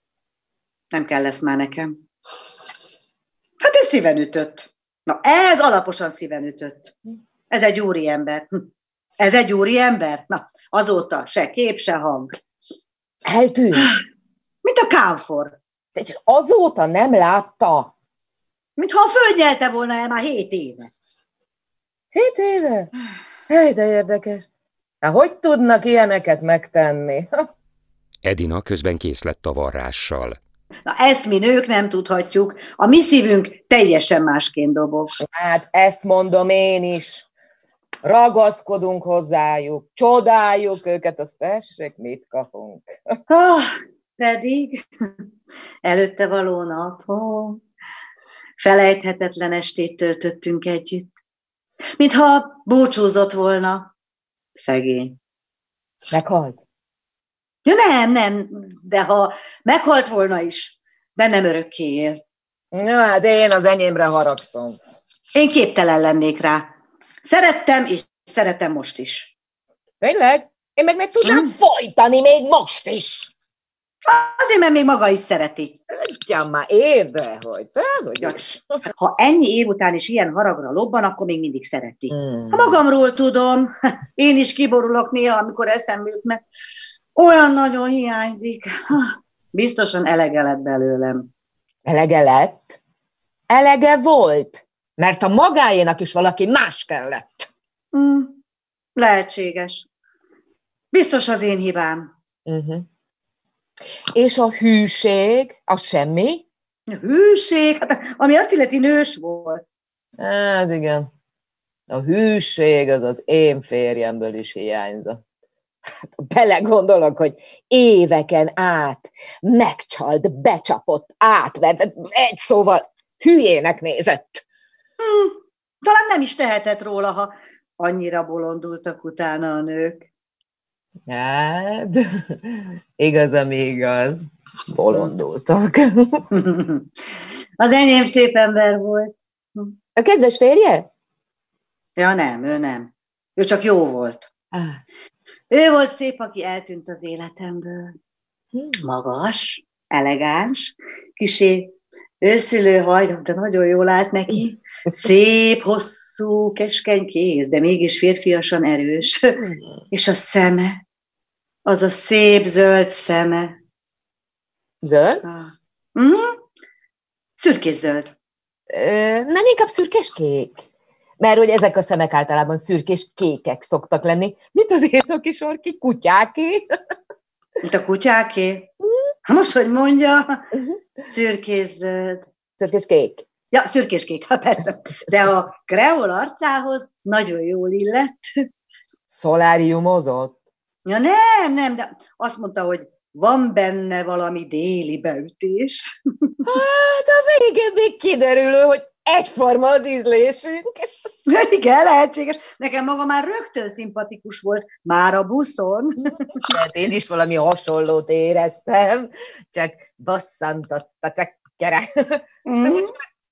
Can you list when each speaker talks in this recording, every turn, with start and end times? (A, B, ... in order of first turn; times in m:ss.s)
0:00.9-0:02.0 A
0:03.6-0:07.0 A
0:07.5-0:08.6 A
0:09.2-0:12.4 A
0:13.3-0:14.0 B
0:14.6-0:15.6 A
0:16.0-0:17.9 B
0:18.8-0:20.9 A
0:22.1-0:22.9 B
0:23.5-0:24.5 B
0:25.0-0:27.5 B
0:28.2-0:30.4 C
0:30.9-0:35.2 A
0:35.2-0:37.3 B
0:38.0-0:43.0 B
0:43.3-0:45.1 A
0:45.8-0:47.6 A
0:48.6-0:51.1 A
0:52.0-0:53.9 A
0:54.6-0:55.2 A
0:56.1-0:56.6 B
0:57.6-1:02.2 A
1:02.7-1:04.8 B
1:05.3-1:06.7 A
1:07.2-1:09.3 A
1:10.0-1:13.3 B
1:11.2-1:11.5 A
1:14.0-1:15.8 A
1:15.9-1:18.6 B
1:18.9-1:26.4 A
1:22.2-1:22.7 B
1:27.2-1:31.3 A
1:31.8-1:32.8 B
1:33.5-1:37.5 B
1:37.9-1:38.4 A
1:39.0-1:39.9 A
1:40.9-1:42.1 A
1:42.5-1:42.9 B
1:44.2-1:46.4 B
1:46.9-1:49.6 A
1:50.2-1:51.1 B
1:51.9-1:55.2 B
1:56.0-2:04.4 B
2:05.0-2:10.1 A
2:11.1-2:16.3 B
2:16.3-2:16.9 A
2:17.6-2:19.8 A
2:20.0-2:20.9 B
2:22.0-2:24.3 A
2:24.5-2:24.8 B
2:25.5-2:28.0 A
2:28.8-2:40.8 A
2:41.6-2:43.6 A
2:44.8-2:45.2 B
2:45.2-2:46.4 A
2:47.4-2:48.1 A
2:48.7-2:50.6 B
2:51.2-2:56.7 B
2:57.6-2:58.7 A
2:59.3-3:00.4 A
3:01.0-3:02.2 A
3:02.6-3:03.3 B
3:03.5-3:08.2 A
3:09.1-3:10.4 B
3:10.8-3:16.4 A
3:16.4-3:20.9 B
3:21.3-3:26.4 A
3:26.3-3:32.8 B
3:32.4-3:32.9 A